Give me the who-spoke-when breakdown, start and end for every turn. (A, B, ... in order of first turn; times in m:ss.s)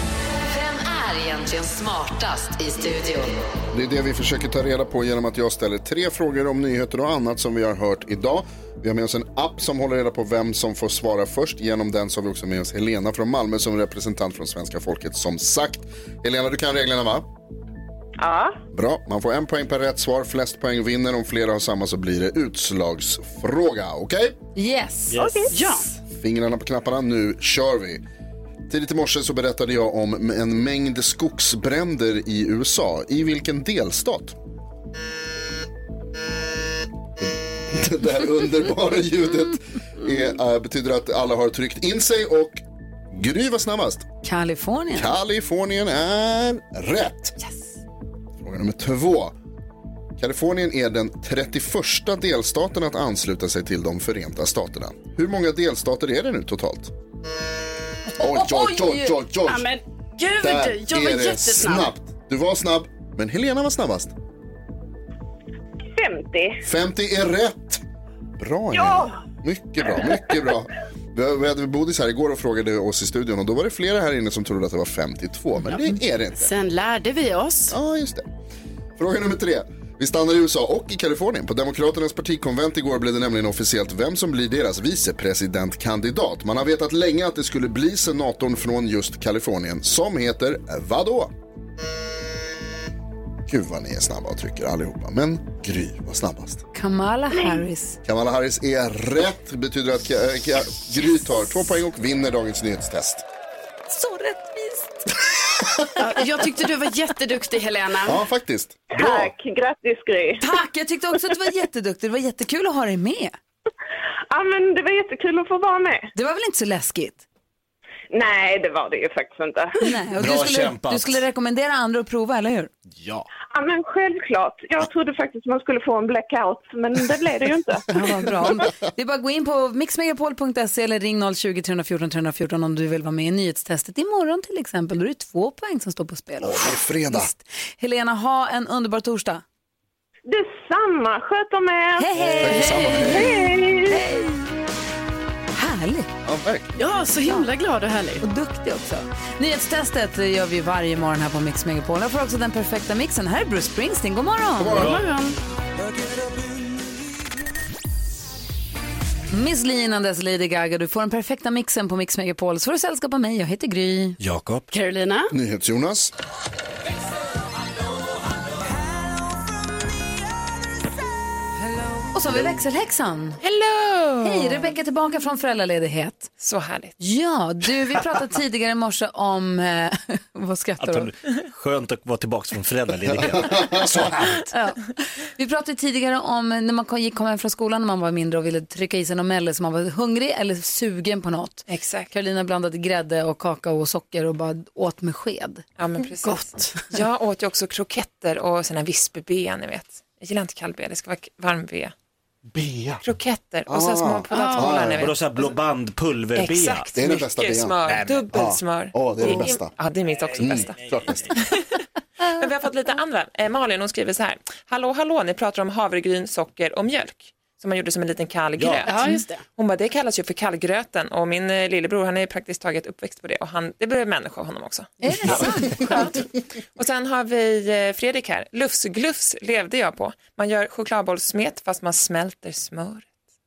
0:00.5-0:03.4 A
0:03.7-0:17.2 B
0:18.2-0:18.6 C
0:18.7-0:24.4 B
0:24.5-0:25.4 D
0:25.1-0:25.4 E
0:25.2-0:25.4 C
0:25.5-0:25.8 F
0:26.2-0:28.0 B
0:28.7-0:34.4 B
0:37.2-0:44.0 B
0:44.2-0:45.1 D
0:44.9-0:47.4 B
0:48.4-0:49.3 B
0:50.2-0:56.9 B
0:58.1-0:59.2 D
0:58.2-0:59.7 B
0:59.4-1:01.9 F
1:00.4-1:04.1 B
1:05.9-1:06.6 C
1:06.6-1:07.8 B
1:08.4-1:16.5 B
1:08.8-1:09.1 C
1:16.4-1:17.7 F
1:17.7-1:18.3 B
1:19.0-1:31.3 B
1:33.5-1:36.6 B
1:36.7-1:38.0 D
1:38.0-1:43.2 B
1:43.9-1:45.2 D
1:46.0-1:48.2 F
1:48.0-1:49.3 B
1:48.9-1:50.4 C
1:50.4-1:53.3 D
1:54.3-1:56.1 C
1:56.1-1:57.2 D
1:58.1-1:59.8 C
1:59.8-2:02.7 D
2:00.2-2:01.2 E
2:02.9-2:03.2 E
2:03.5-2:07.9 C
2:07.9-2:19.4 D
2:16.4-2:17.3 B
2:20.2-2:24.0 C
2:22.0-2:24.5 D
2:22.2-2:23.4 B
2:25.5-2:26.1 D
2:26.2-2:26.8 B
2:26.8-2:28.2 F
2:28.2-2:34.9 D
2:34.6-2:35.0 B
2:34.7-2:35.4 F
2:36.1-2:36.4 E
2:39.3-2:44.2 D
2:44.2-2:44.7 E
2:44.7-2:45.3 F
2:45.3-2:46.1 B
2:52.1-2:53.4 D
2:53.4-2:54.7 G
2:54.2-2:56.3 D
2:56.4-2:56.9 G
2:57.0-3:01.1 D
3:00.8-3:04.5 E
3:03.4-3:03.8 B
3:04.5-3:15.6 D
3:11.7-3:12.1 G
3:15.8-3:21.9 G
3:16.2-3:16.9 F
3:22.6-3:23.0 E
3:23.0-3:25.5 G
3:23.7-3:25.1 B
3:24.3-3:24.9 F
3:24.9-3:26.9 E
3:26.4-3:31.6 G
3:26.9-3:29.7 B
3:27.8-3:28.5 E
3:30.2-3:31.3 E
3:30.4-3:31.3 B
3:32.2-3:46.2 G
3:38.6-3:38.9 E
3:38.8-3:39.4 F
3:38.9-3:39.2 D
3:45.0-3:46.1 D
3:46.8-3:53.1 G